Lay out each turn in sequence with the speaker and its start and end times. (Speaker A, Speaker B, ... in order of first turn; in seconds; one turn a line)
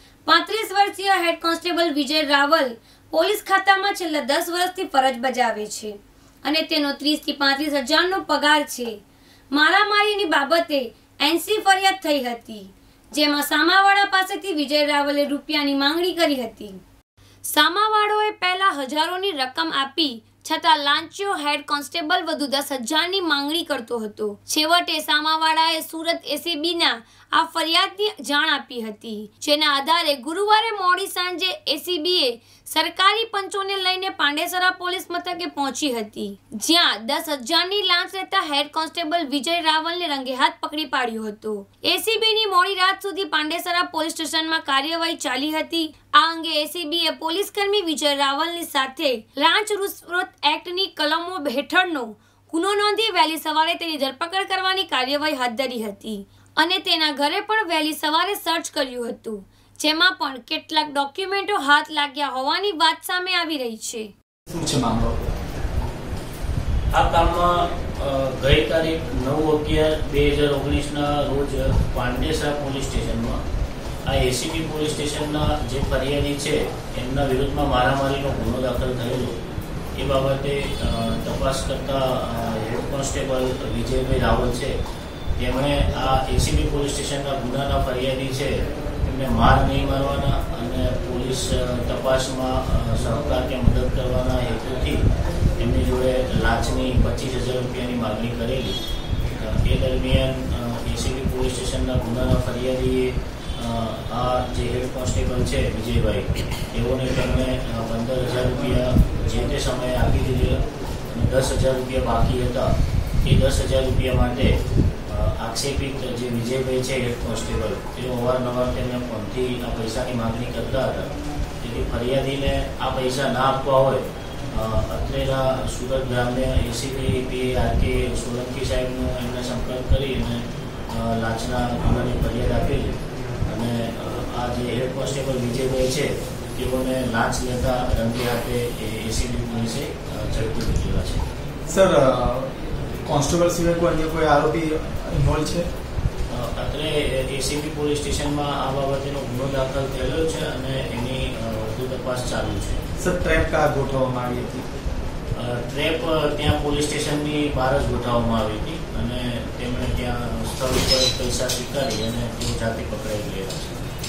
Speaker A: 0.3-5.9
Speaker A: 6.5-8.9
Speaker A: 9.5-16.8
Speaker A: 17.5-64.1
Speaker B: 64.5-65.3
Speaker C: 66.9-73.4
Speaker C: 74.1-79.4
Speaker C: 80.0-84.7
Speaker C: 85.4-95.0
Speaker C: 95.6-98.8
Speaker C: 99.4-112.7
Speaker C: 113.2-114.5
Speaker C: 115.1-121.1
Speaker C: 121.6-141.2
Speaker B: 141.7-142.5
Speaker B: 143.1-145.7
Speaker C: 146.3-152.8
Speaker B: 153.0-154.7
Speaker C: 155.4-163.8